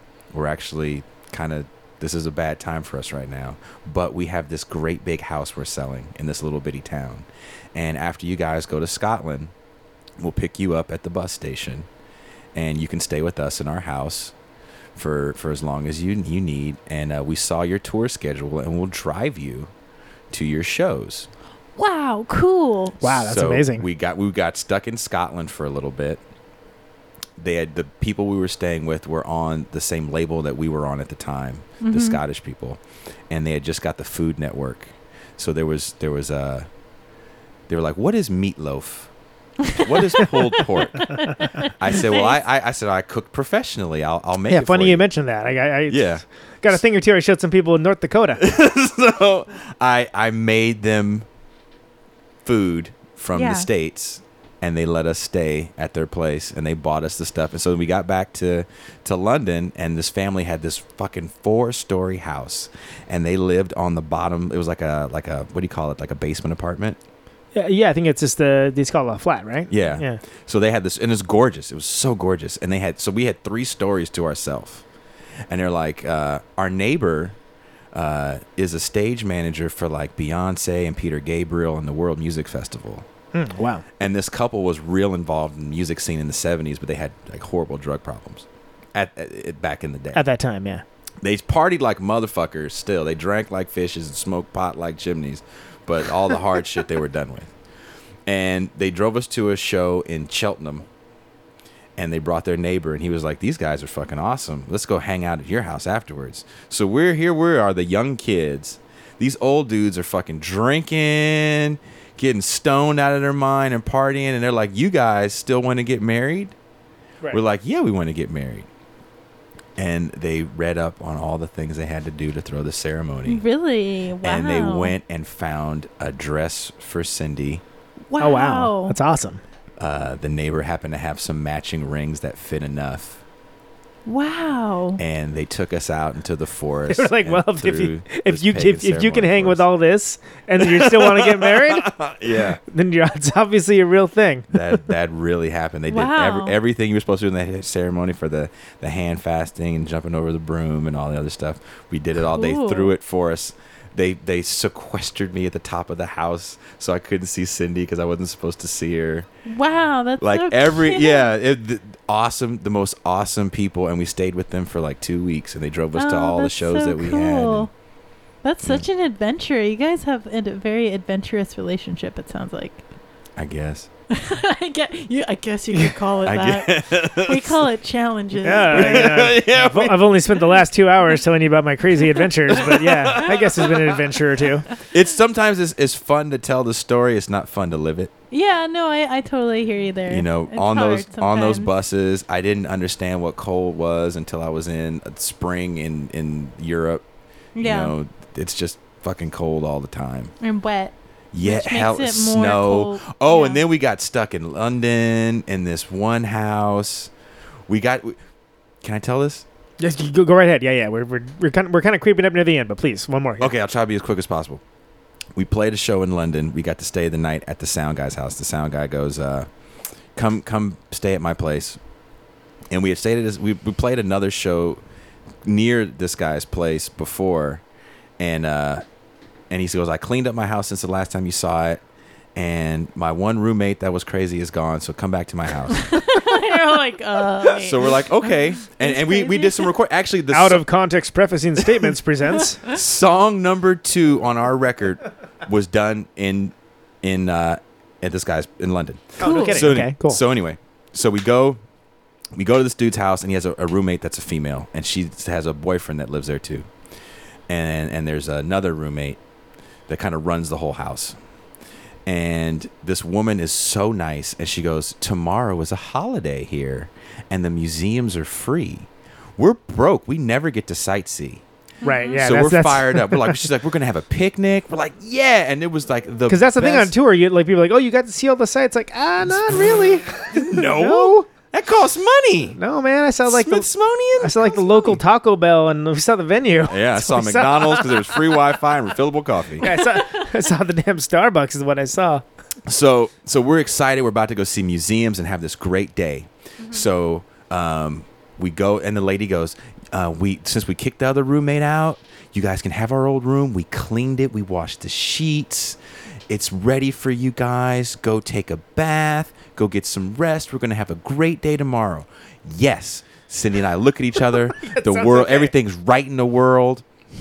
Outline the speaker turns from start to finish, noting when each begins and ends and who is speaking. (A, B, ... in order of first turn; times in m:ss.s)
0:00.3-0:09.5 A
0:10.2-0:11.9 A
0:12.6-0:14.3 A
0:15.0-0:19.7 A
0:20.3-0:21.3 A
0:21.8-0:23.0 B
0:23.0-0:26.2 A
0:23.0-0:23.9 C
0:27.4-0:36.7 A
0:31.8-0:32.2 B
0:37.7-0:39.1 A
0:39.7-0:42.4 B
0:39.8-0:41.2 A
0:41.8-0:45.1 A
0:44.5-0:48.4 C
0:45.9-0:46.8 A
0:48.4-0:51.3 A
0:52.4-1:07.0 A
0:53.3-0:53.7 B
1:07.5-1:10.2 C
1:09.7-1:14.8 A
1:15.5-1:17.4 A
1:17.9-1:23.1 A
1:23.3-1:23.8 C
1:24.0-1:30.2 A
1:30.1-1:30.8 C
1:31.2-1:37.5 A
1:38.3-1:40.9 A
1:42.0-1:56.6 A
1:57.3-1:58.7 A
1:59.8-2:03.4 A
2:03.3-2:05.0 B
2:04.2-2:07.6 A
2:08.1-2:09.0 B
2:08.2-2:09.4 C
2:09.8-2:13.2 A
2:14.1-2:15.0 B
2:15.0-2:19.6 A
2:16.9-2:22.1 C
2:20.6-2:22.6 A
2:22.7-2:24.8 C
2:24.5-2:39.3 A
2:25.9-2:26.6 B
2:32.3-2:32.9 B
2:39.5-2:41.3 B
2:40.2-2:47.7 A
2:46.0-2:47.7 B
2:48.4-2:52.8 B
2:53.4-2:53.9 A
2:54.1-2:59.2 B
2:56.2-2:57.7 A
2:58.4-3:04.7 C
2:58.6-3:00.2 A
3:02.5-3:03.9 A
3:04.9-3:08.1 A
3:08.3-3:11.7 B
3:10.1-3:17.0 A
3:17.6-3:18.0 B
3:17.6-3:20.3 A
3:20.4-3:23.6 B
3:21.3-3:27.1 A
3:27.7-3:28.2 A
3:28.8-3:29.5 A
3:29.8-3:33.5 C
3:33.4-3:34.6 A
3:35.4-3:39.5 A
3:40.2-3:41.8 A
3:42.7-3:44.8 A
3:45.4-3:47.6 A
3:48.2-3:48.8 A
3:49.5-3:51.8 A
3:52.4-3:55.8 A
3:55.8-3:59.7 B
3:57.5-4:00.6 A
4:00.3-4:02.6 C
4:02.7-4:11.6 A
4:09.2-4:10.2 C
4:09.2-4:09.6 B
4:12.3-4:16.7 A
4:17.5-4:19.2 A
4:19.9-4:21.2 A
4:22.1-4:31.4 A
4:31.8-4:32.2 B
4:31.8-4:33.5 C
4:32.2-4:36.9 A
4:36.3-4:41.2 C
4:40.3-4:42.6 A
4:42.6-4:48.2 C
4:43.2-4:45.0 A
4:46.7-4:49.7 A
4:49.6-4:52.2 C
4:49.7-4:50.2 B
4:52.7-5:05.8 A
4:56.6-4:56.9 B
5:06.3-5:16.8 A
5:14.6-5:15.5 C